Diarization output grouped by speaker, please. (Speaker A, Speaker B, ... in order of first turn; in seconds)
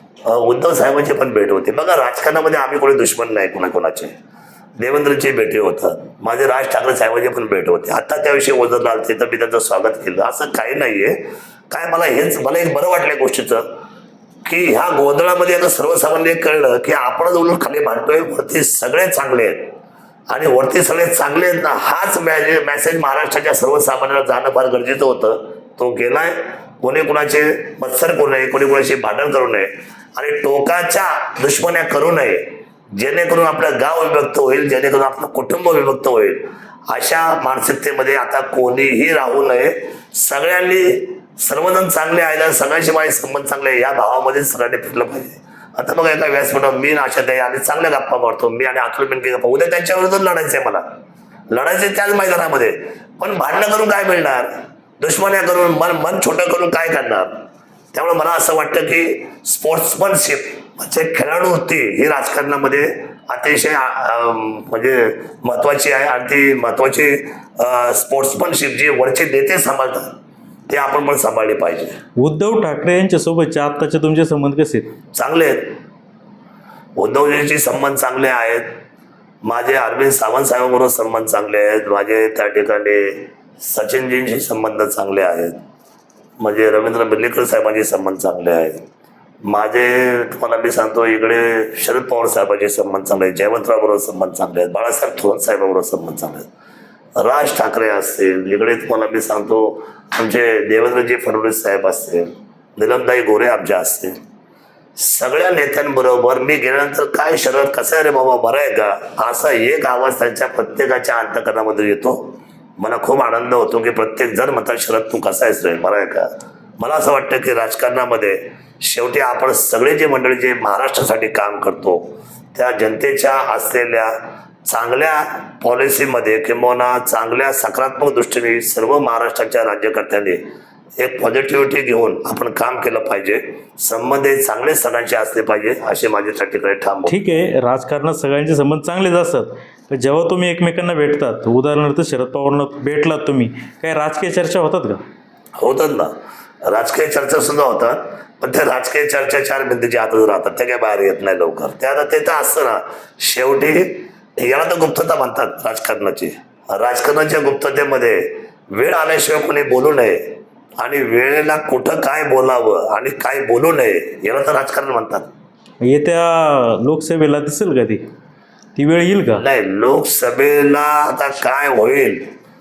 Speaker A: 0.2-4.1, 4.8-11.2, 11.7-13.6, 14.4-19.6, 20.3-32.4, 33.0-50.8, 51.5-57.3, 57.9-70.1, 70.7-71.9, 75.1-75.7, 77.0-78.7, 79.4-85.6, 86.4-88.8, 89.5-96.5, 97.2-104.2, 105.0-116.3, 116.8-122.0, 122.5-124.1, 124.7-130.4, 131.0-137.2, 145.6-146.1, 146.6-160.2, 160.8-165.3, 169.3-172.3
Speaker B: 72.2-74.9, 137.1-145.0, 165.8-168.0, 168.8-169.4